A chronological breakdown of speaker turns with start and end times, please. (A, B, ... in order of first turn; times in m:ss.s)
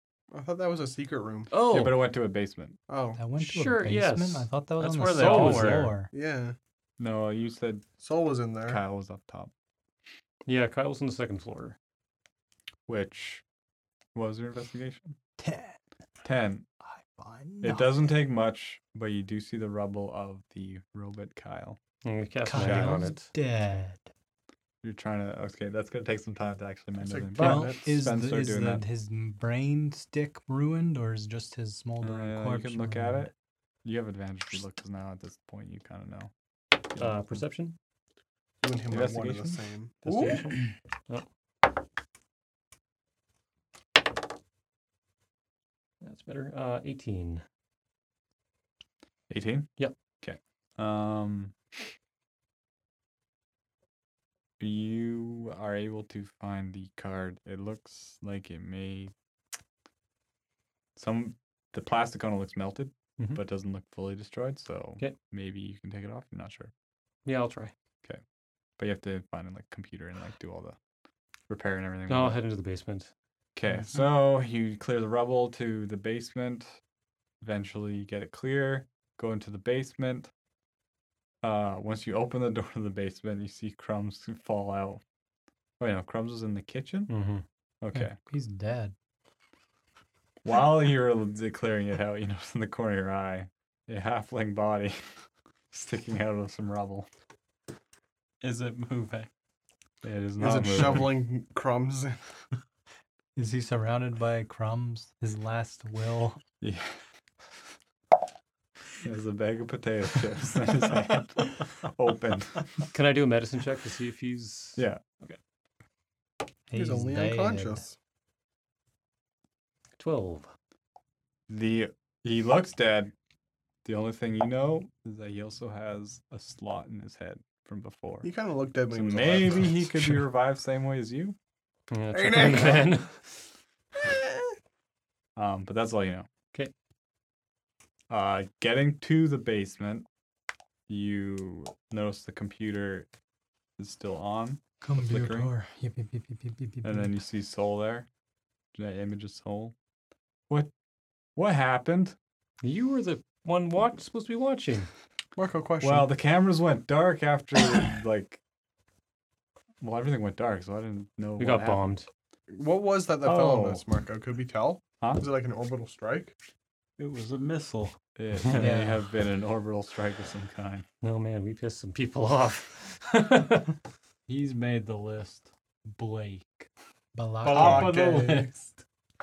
0:00.3-0:01.5 A
0:01.5-0:02.0 B
0:01.7-0:02.8 C
0:02.9-0:03.2 A
0:03.2-0:06.1 D
0:03.4-0:04.5 B
0:04.8-0:06.0 E
0:05.1-0:05.9 B
0:06.1-0:06.6 A
0:07.0-0:07.8 C
0:08.0-0:08.8 A
0:08.7-0:09.5 C
0:10.4-0:11.8 B
0:12.9-0:13.4 C
0:14.1-0:15.2 C
0:15.4-0:15.8 D
0:16.2-0:16.6 C
0:16.8-0:17.9 D
0:17.6-0:21.8 C
0:22.0-0:23.3 B
0:22.4-0:24.1 D
0:22.6-0:23.0 C
0:24.8-0:28.8 C
0:27.0-0:27.8 A
0:27.4-0:33.3 D
0:32.0-0:33.3 C
0:33.8-0:36.3 C
0:36.9-0:37.4 C
0:36.9-0:37.7 B
0:38.6-0:40.5 A
0:38.9-0:39.6 C
0:40.0-0:41.2 B
0:46.0-0:47.4 B
0:49.3-0:51.5 C
0:54.6-0:59.1 C
1:01.0-1:06.7 C
1:07.2-1:07.7 B
1:08.8-1:10.8 C
1:11.5-1:12.4 C
1:12.1-1:13.1 B
1:13.6-1:16.8 C
1:17.4-1:20.3 C
1:21.4-1:25.0 C
1:25.8-1:27.1 C
1:27.1-1:27.4 B
1:27.8-1:28.2 C
1:27.9-1:28.9 D
1:30.4-1:35.0 C
1:35.7-1:37.1 C
1:38.4-1:39.3 E
1:40.0-1:41.2 C
1:40.4-1:42.2 A
1:43.4-1:46.4 D
1:46.6-1:47.0 C
1:49.0-1:52.8 C
1:52.9-1:55.4 B
1:56.7-1:57.8 D
1:56.7-1:57.9 A
2:00.0-2:00.5 B
2:01.5-2:03.1 C
2:03.8-2:08.3 C
2:08.2-2:09.8 A
2:08.9-2:11.4 C
2:11.9-2:13.2 B
2:12.1-2:12.9 A
2:15.4-2:16.3 C
2:18.1-2:20.1 C
2:20.9-2:23.1 C
2:23.8-2:25.5 C
2:24.8-2:27.1 D
2:26.8-2:28.1 C
2:28.7-2:29.7 C
2:31.4-2:32.2 C
2:32.6-2:34.9 B
2:35.4-2:36.1 A
2:35.8-2:38.4 C
2:39.8-2:41.9 C
2:41.4-2:42.1 B
2:42.5-2:46.3 A
2:43.2-2:43.8 C
2:47.0-2:48.0 E
2:48.2-2:50.8 C
2:48.5-2:49.0 D
2:51.0-2:53.7 B
2:54.3-2:56.7 E
2:57.1-2:58.0 D
2:57.4-2:58.5 A
2:57.5-2:58.8 E